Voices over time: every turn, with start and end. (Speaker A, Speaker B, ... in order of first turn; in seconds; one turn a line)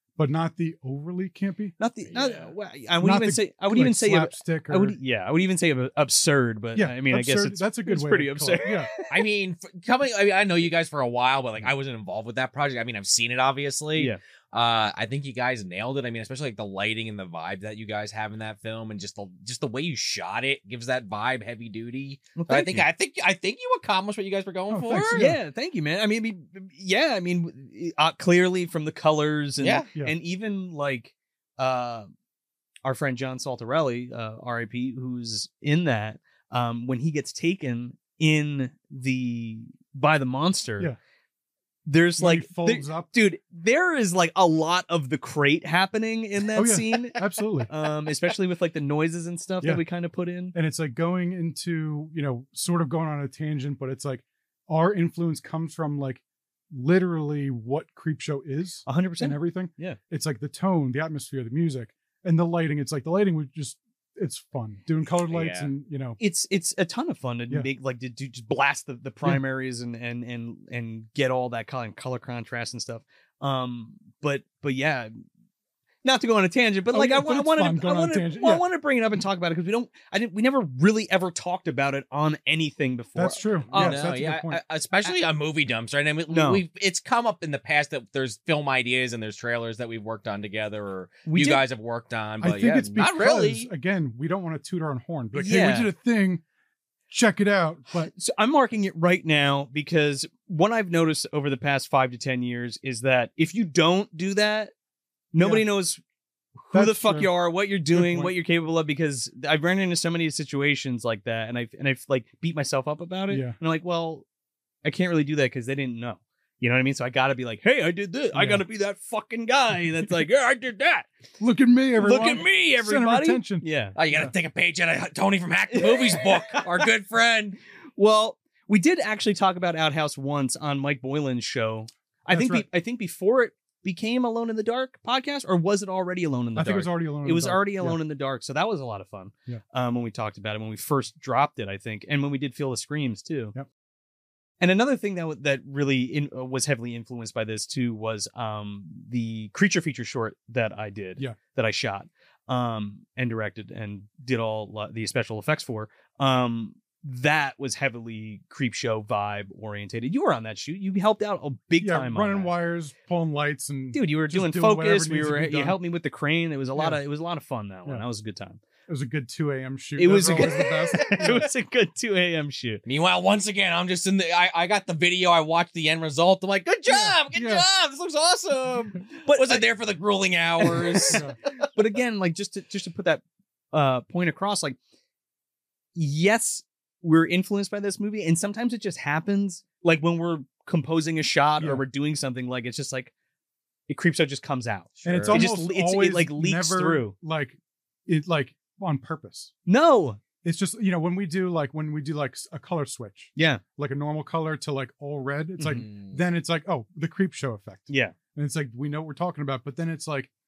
Speaker A: 0.1-1.7
Speaker B: 1.8-9.2
Speaker C: 2.1-2.5
Speaker A: 3.0-5.0
Speaker A: 6.8-8.9
Speaker C: 9.1-25.2
Speaker B: 22.4-22.9
Speaker A: 24.7-25.4
Speaker B: 25.1-32.1
Speaker C: 29.6-29.9
Speaker B: 32.8-40.9
Speaker B: 41.9-50.5
Speaker A: 42.2-43.1
Speaker A: 46.5-47.7
Speaker A: 50.5-66.2
Speaker B: 58.9-60.0
Speaker C: 65.3-65.7
Speaker B: 66.2-75.1
Speaker B: 76.0-84.1
Speaker A: 76.9-78.6
Speaker A: 83.2-84.6
Speaker C: 83.7-93.7
Speaker B: 86.3-86.6
Speaker B: 91.2-91.6
Speaker A: 92.4-96.4
Speaker B: 95.3-95.9
Speaker A: 97.1-98.1
Speaker B: 98.1-104.7
Speaker B: 105.3-106.0
Speaker A: 105.4-105.6
Speaker B: 106.6-114.2
Speaker A: 106.7-107.3
Speaker A: 107.9-108.3
Speaker A: 113.3-113.6
Speaker B: 114.8-121.1
Speaker A: 118.3-118.6
Speaker A: 121.4-124.3
Speaker B: 122.0-124.0
Speaker C: 124.0-127.6
Speaker B: 125.7-126.9
Speaker B: 128.0-143.5
Speaker A: 132.3-132.7
Speaker A: 136.5-138.0
Speaker B: 144.6-162.5
Speaker A: 161.8-165.8
Speaker B: 163.9-168.6
Speaker A: 166.8-167.0
Speaker A: 168.9-171.5
Speaker B: 170.0-172.8
Speaker C: 172.8-181.2
Speaker A: 176.8-177.6
Speaker B: 179.2-179.7
Speaker B: 180.6-181.2
Speaker A: 181.1-181.4
Speaker B: 181.7-184.8
Speaker B: 185.9-193.1
Speaker A: 191.6-191.8
Speaker B: 193.9-197.1
Speaker C: 195.0-195.5
Speaker A: 195.0-199.5
Speaker B: 199.7-200.2
Speaker A: 200.4-210.3
Speaker B: 203.3-203.6
Speaker B: 205.6-205.9
Speaker C: 205.7-206.2
Speaker B: 207.9-208.2